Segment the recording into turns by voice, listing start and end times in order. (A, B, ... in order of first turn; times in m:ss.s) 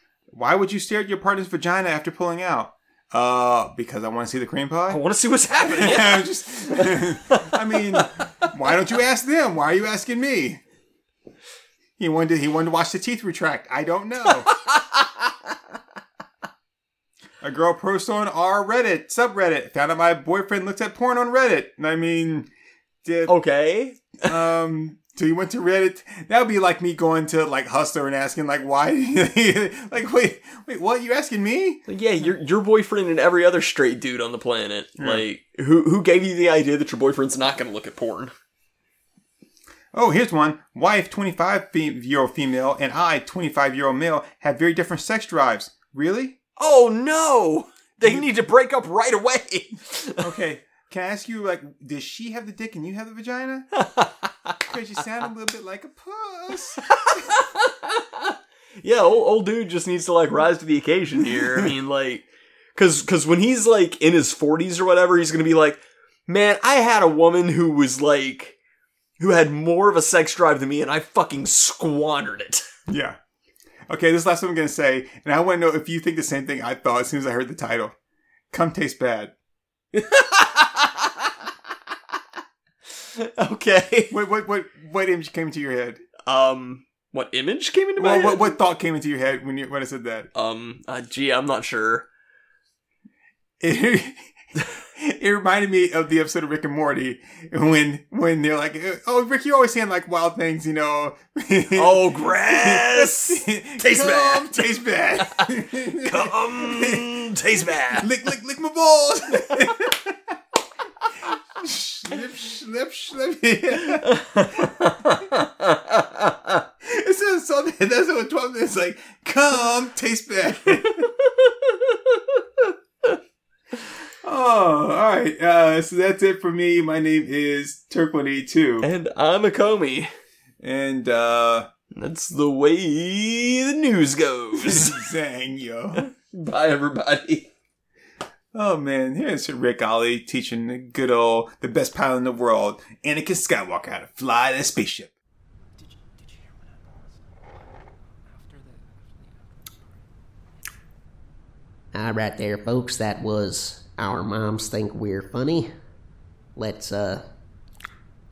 0:00.3-0:05.0 A
0:04.9-0:08.5 B
0:05.6-0:10.6 A
0:12.0-0:14.5 A
0:14.4-0:15.3 B
0:17.4-0:22.5 A
0:23.0-0:23.3 A
0:23.2-0:24.3 B
0:24.2-0:31.8 A
0:31.9-0:38.3 B
0:35.0-0:35.2 A
0:39.9-0:46.4 A
0:46.6-0:50.3 B
0:48.0-0:48.3 A
0:50.2-0:53.7 A
0:53.8-0:54.5 B
0:54.6-0:57.4 A
0:57.0-1:08.6 B
1:01.2-1:01.7 A
1:09.2-1:12.6 B
1:12.9-1:13.2 A
1:13.9-1:17.9 A
1:18.5-1:19.3 A
1:19.9-1:21.3 B
1:23.1-1:24.1 B
1:24.1-1:26.0 A
1:26.2-1:28.6 B
1:28.0-1:30.3 A
1:30.3-1:32.1 B
1:33.6-1:34.3 A
1:34.9-1:50.4 A
1:41.7-1:48.1 B
1:51.2-1:55.3 A
1:53.9-1:56.6 B
1:56.8-2:01.1 A
2:00.9-2:02.4 B
2:04.2-2:08.9 A
2:08.8-2:10.1 B
2:10.6-2:11.7 A
2:11.9-2:15.1 B
2:14.5-2:16.1 A
2:16.0-2:17.5 B
2:18.5-2:25.1 A
2:25.8-2:27.3 C
2:28.2-2:29.8 C
2:31.9-2:35.7 D
2:36.6-2:37.2 D